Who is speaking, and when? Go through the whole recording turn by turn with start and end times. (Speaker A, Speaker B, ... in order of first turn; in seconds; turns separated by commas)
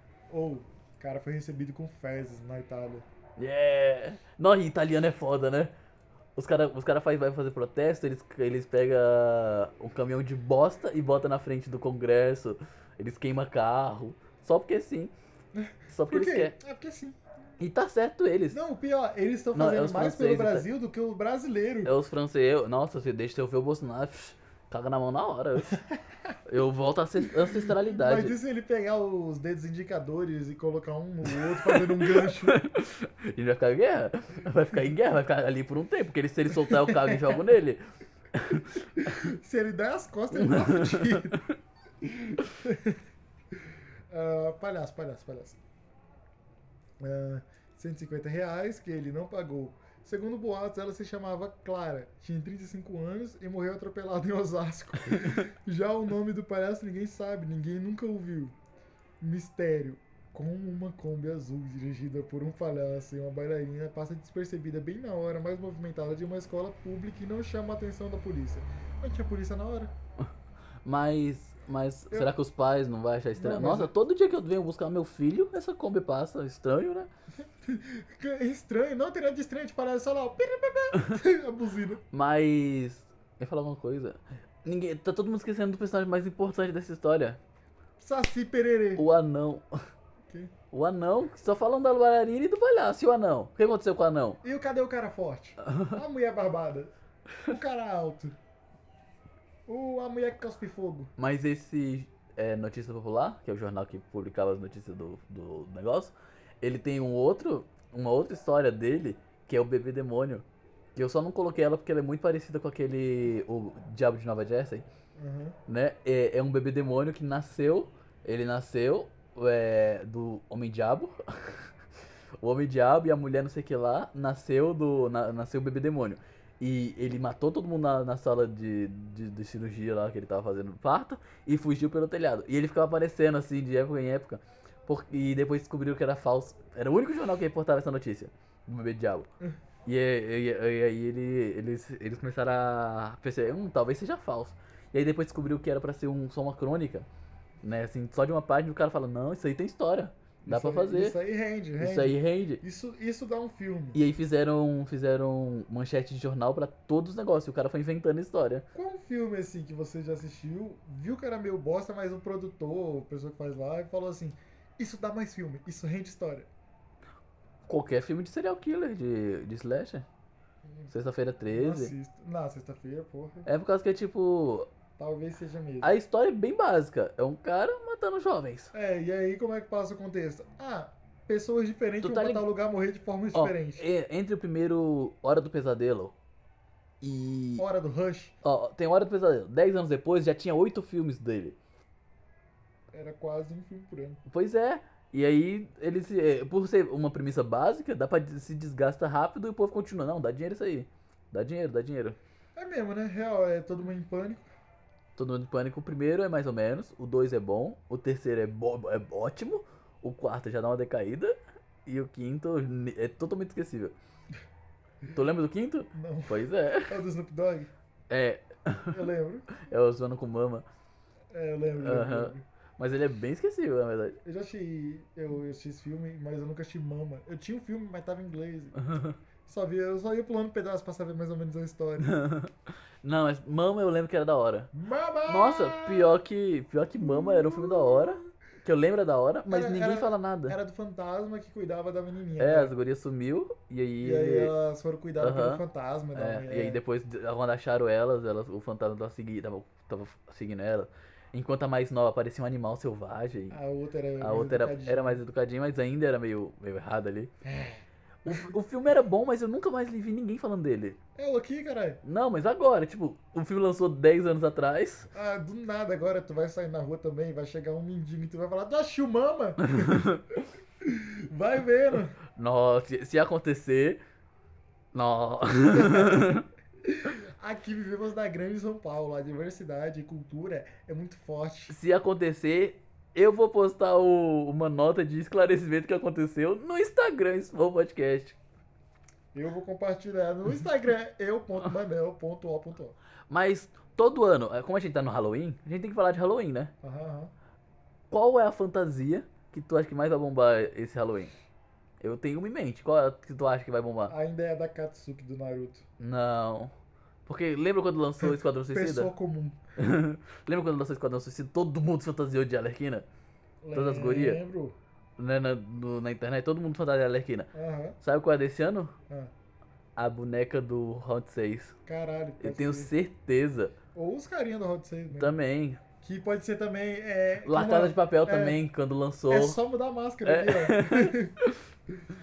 Speaker A: 0.3-3.0, Speaker B: 3.4-5.7, Speaker B: 6.3-15.1, Speaker A: 15.5-17.2, Speaker B: 15.9-16.5, Speaker B: 17.6-18.6, Speaker A: 18.5-21.9, Speaker B: 19.5-20.6, Speaker B: 21.8-25.8, Speaker A: 25.7-26.4, Speaker B: 26.5-28.3, Speaker A: 27.2-32.6, Speaker B: 31.5-38.8, Speaker A: 36.5-37.4, Speaker A: 39.0-41.4, Speaker B: 40.3-41.4, Speaker A: 42.0-45.6, Speaker A: 47.0-58.5, Speaker B: 55.1-55.4, Speaker A: 59.2-69.9, Speaker B: 70.8-77.1, Speaker A: 73.4-73.9, Speaker A: 77.4-82.0, Speaker B: 82.1-87.4, Speaker A: 88.0-89.0, Speaker B: 89.0-89.8, Speaker B: 90.7-94.4, Speaker A: 94.4-96.9, Speaker B: 95.6-95.9, Speaker A: 97.4-98.3, Speaker A: 99.7-101.1, Speaker B: 101.2-110.4, Speaker B: 111.0-114.8, Speaker A: 115.2-115.6, Speaker B: 115.7-121.7, Speaker B: 122.4-139.3, Speaker B: 139.8-147.1, Speaker B: 147.6-151.2, Speaker A: 150.4-154.0, Speaker B: 151.8-152.6, Speaker B: 153.9-158.7, Speaker A: 158.7-166.5, Speaker B: 167.7-170.1, Speaker A: 170.6-170.9, Speaker B: 170.9-171.9, Speaker A: 171.5-173.5, Speaker B: 173.4-174.7, Speaker A: 175.0-175.9, Speaker B: 175.8-178.7, Speaker A: 178.7-183.8, Speaker B: 182.0-182.4, Speaker B: 183.3-186.1, Speaker B: 187.0-187.6, Speaker A: 187.6-188.3, Speaker B: 188.4-191.6, Speaker A: 192.9-194.2, Speaker B: 194.2-202.2, Speaker A: 202.6-204.5, Speaker B: 205.2-213.9, Speaker B: 215.1-216.9, Speaker A: 215.9-217.7, Speaker B: 218.1-219.0, Speaker A: 218.9-219.5, Speaker B: 219.6-220.6, Speaker A: 221.3-222.4, Speaker B: 221.8-224.2, Speaker A: 224.2-228.8, Speaker B: 228.8-229.2, Speaker A: 229.4-232.2, Speaker B: 232.0-234.7, Speaker A: 234.7-236.2, Speaker B: 235.3-240.6, Speaker A: 237.0-238.3, Speaker A: 239.4-242.7, Speaker B: 242.4-244.5, Speaker A: 244.0-246.8, Speaker B: 245.2-245.6, Speaker B: 246.1-253.6, Speaker A: 253.5-255.2, Speaker B: 254.2-257.3, Speaker A: 257.4-258.5, Speaker B: 258.2-261.0, Speaker A: 261.1-262.0, Speaker B: 262.0-265.1, Speaker A: 265.1-270.1, Speaker B: 269.6-270.2, Speaker A: 270.8-272.2, Speaker B: 272.3-274.0, Speaker B: 274.9-276.4, Speaker A: 275.7-281.8, Speaker B: 281.7-288.4, Speaker A: 289.3-292.9, Speaker B: 293.3-296.7, Speaker A: 296.8-297.3, Speaker B: 298.1-301.3, Speaker B: 302.0-304.1, Speaker A: 304.1-305.8, Speaker B: 306.0-306.7, Speaker B: 307.2-309.1, Speaker A: 308.2-309.6, Speaker B: 309.8-313.1, Speaker A: 313.6-314.8, Speaker B: 313.7-314.4, Speaker B: 315.2-317.5, Speaker A: 317.5-318.0, Speaker B: 318.0-319.0, Speaker B: 320.0-321.8, Speaker A: 321.9-322.9, Speaker B: 322.4-323.8, Speaker A: 323.9-325.4, Speaker B: 325.1-325.8, Speaker A: 326.0-328.6, Speaker B: 327.4-329.6, Speaker A: 329.3-331.4, Speaker B: 330.2-331.6